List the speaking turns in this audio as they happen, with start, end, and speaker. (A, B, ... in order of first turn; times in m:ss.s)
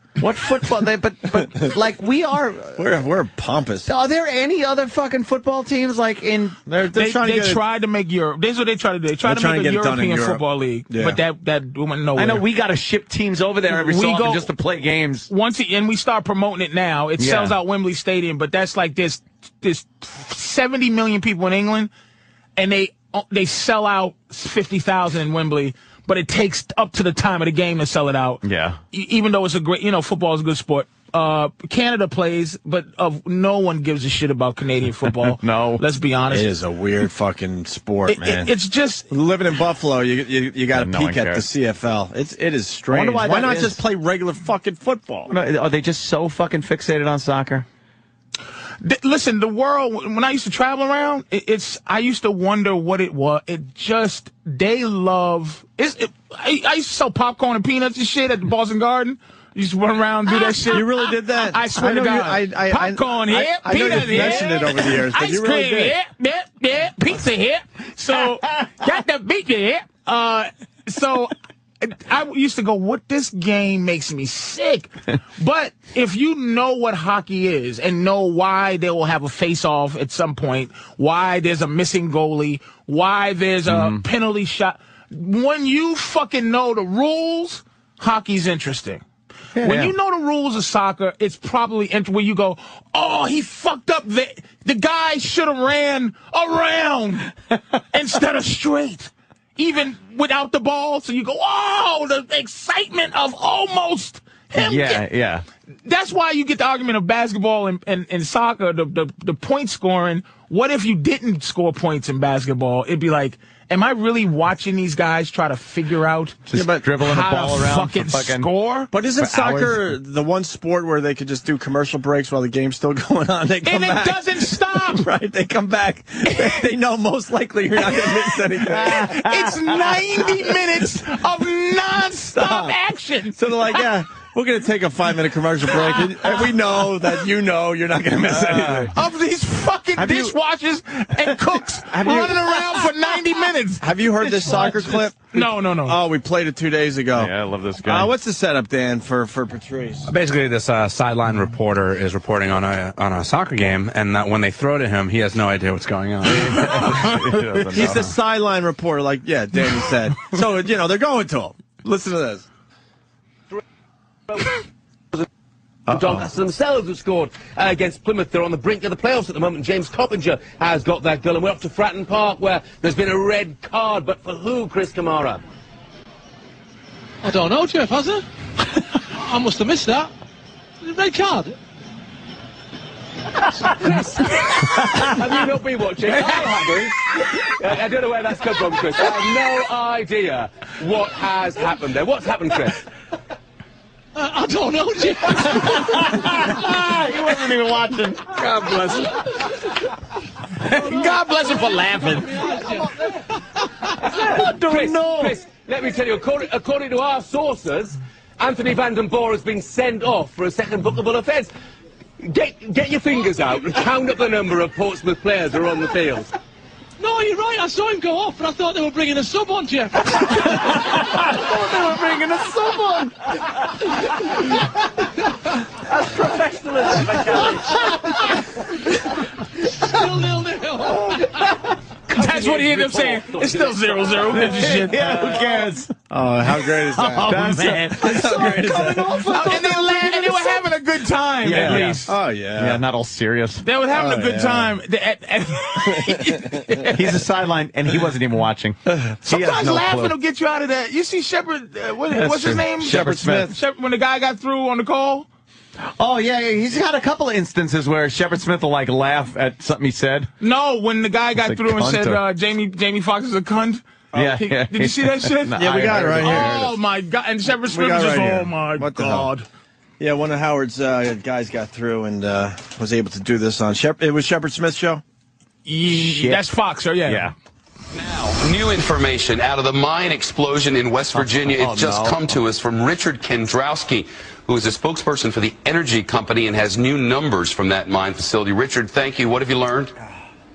0:00.2-0:02.9 A
0:02.8-0:03.9 B
0:03.8-0:06.6 A
0:06.7-0:07.6 B
0:07.0-0:12.4 C
0:09.2-0:11.2 B
0:12.2-0:15.3 A
0:13.7-0:14.5 C
0:15.3-0:21.9 C
0:17.2-0:17.6 A
0:22.6-0:36.5 C
0:28.4-0:28.8 A
0:35.2-0:35.8 A
0:36.3-0:38.5 B
0:38.1-0:39.1 C
0:39.1-0:45.3 B
0:40.7-0:41.4 A
0:42.9-0:43.8 A
0:45.3-0:47.6 A
0:48.8-1:29.0 C
1:00.6-1:06.0 B
1:23.7-1:24.0 A
1:29.6-1:29.9 A
1:29.6-1:37.3 C
1:37.9-1:45.0 C
1:44.6-1:45.4 A
1:45.8-1:56.4 C
1:56.5-1:58.5 A
1:56.5-1:56.8 B
1:57.0-1:59.7 C
1:58.9-2:09.3 B
2:03.6-2:05.1 C
2:08.8-2:13.4 C
2:09.0-2:09.6 A
2:12.4-2:12.8 B
2:13.3-2:18.9 B
2:18.3-2:18.9 A
2:18.9-2:23.8 C
2:20.0-2:20.3 A
2:21.9-2:22.4 B
2:23.8-2:30.1 B
2:24.4-2:24.8 A
2:25.3-2:26.0 C
2:27.2-2:28.1 A
2:30.1-2:37.2 D
2:36.3-2:38.0 A
2:37.7-2:42.5 B
2:44.3-2:44.6 E
2:45.9-2:46.3 B
2:45.9-2:55.4 E
2:57.2-2:58.2 F
2:59.2-3:00.1 F
3:00.8-3:01.6 F
3:03.9-3:12.8 E
3:14.2-3:16.0 F
3:15.6-3:18.3 A
3:18.4-3:19.1 C
3:20.7-3:22.4 C
3:22.1-3:23.0 F
3:24.1-3:25.4 A
3:24.4-3:31.5 E
3:32.2-3:36.3 E
3:37.0-3:40.9 F
3:41.0-3:43.1 A
3:45.9-3:47.7 A
3:49.8-3:51.4 F
3:52.1-3:54.4 E
3:52.1-3:55.4 C
3:54.4-3:55.9 A
3:56.1-3:59.7 B
3:56.9-4:00.4 A
3:59.3-4:02.1 C
4:01.4-4:03.6 A
4:01.5-4:02.8 B
4:03.6-4:07.2 C
4:03.9-4:04.8 B
4:05.8-4:06.7 B
4:06.9-4:10.1 A
4:09.3-4:15.3 C
4:12.1-4:13.5 A
4:12.8-4:13.5 B
4:16.0-4:20.3 A
4:20.4-4:23.8 C
4:21.4-4:22.2 A
4:24.1-4:26.7 A
4:24.4-4:29.4 C
4:25.6-4:26.7 B
4:27.7-4:29.3 B
4:30.0-4:35.0 B
4:35.7-4:37.3 C
4:35.9-4:36.4 A
4:37.1-4:37.3 A
4:37.9-4:49.9 G
4:41.5-4:41.9 B